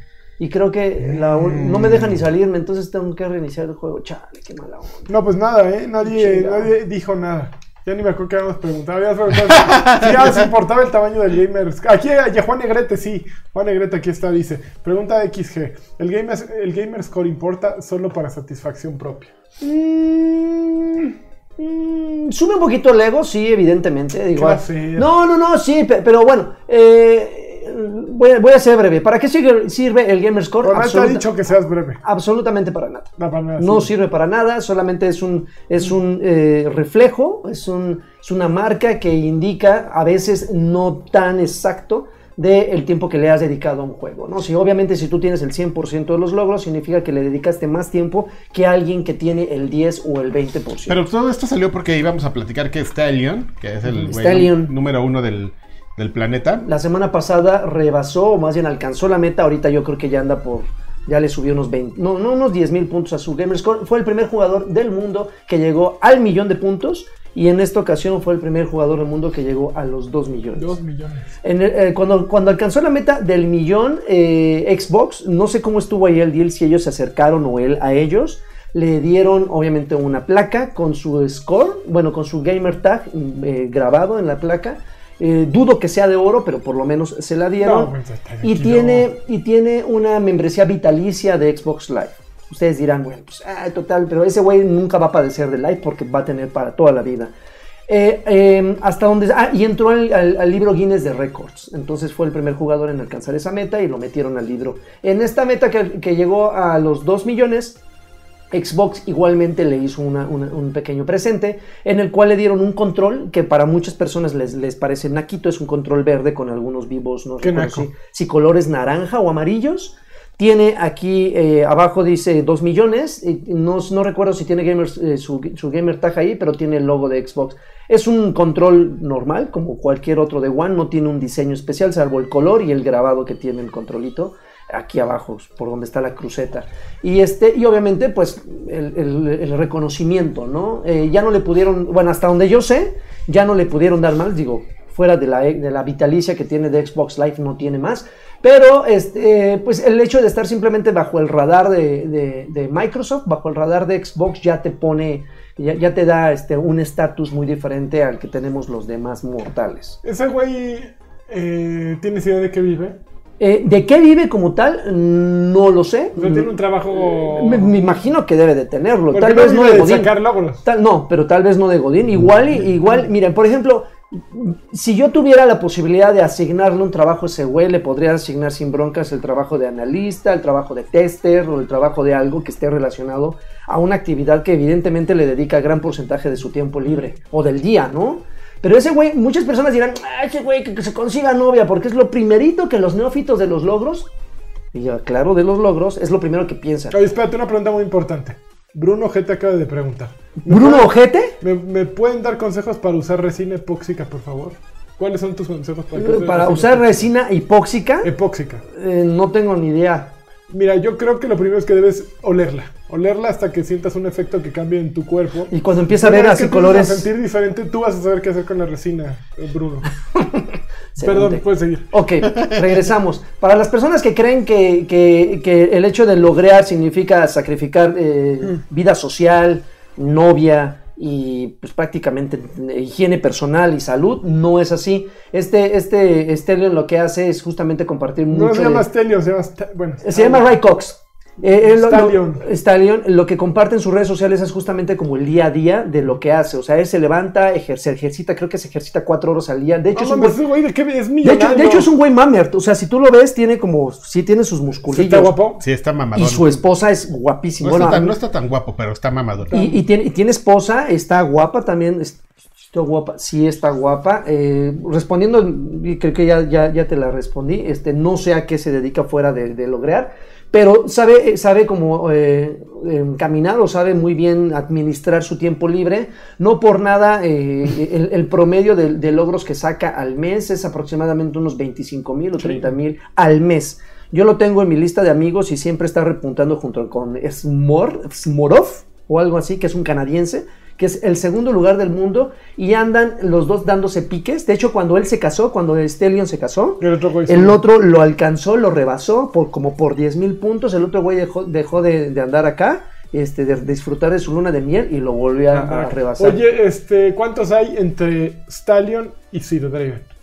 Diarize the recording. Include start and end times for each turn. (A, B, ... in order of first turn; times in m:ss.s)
0:00.4-0:05.1 A
0:01.1-0:02.2 B
0:05.1-0:19.3 C
0:06.0-0:06.7 A
0:09.5-0:10.4 B
0:19.6-0:31.2 A
0:24.3-0:25.1 C
0:30.6-0:32.0 C
0:32.0-0:51.0 A
0:33.2-0:33.9 C
0:50.9-0:56.7 B
0:54.0-0:54.7 A
0:56.6-1:10.7 A
1:10.6-1:11.3 C
1:11.4-1:27.9 A
1:27.6-1:29.1 C
1:28.4-1:37.3 A
1:37.9-1:47.8 A
1:48.5-2:40.0 A
1:57.4-1:57.9 C
2:40.0-2:43.0 C
2:43.4-2:50.1 A
2:46.2-2:47.9 C
2:49.1-2:50.6 C
2:50.6-3:14.1 A
3:14.7-3:17.0 A
3:16.9-3:20.9 C
3:20.4-3:21.4 A
3:21.4-3:27.1 C
3:25.9-3:28.1 A
3:28.0-3:28.6 C
3:28.7-3:30.1 A
3:30.5-3:39.9 C
3:35.5-3:37.1 A
3:40.2-3:58.8 A
3:41.0-3:41.9 C
3:58.3-4:00.5 C
4:00.0-4:10.4 A
4:01.5-4:02.4 C
4:09.9-4:11.9 C
4:11.2-4:15.4 A
4:14.9-4:15.6 C
4:15.6-4:16.5 B
4:16.1-4:18.2 A
4:17.6-4:19.5 B
4:19.5-4:19.8 C
4:19.5-5:06.4 A
4:56.8-4:57.6 C
5:05.5-5:10.1 C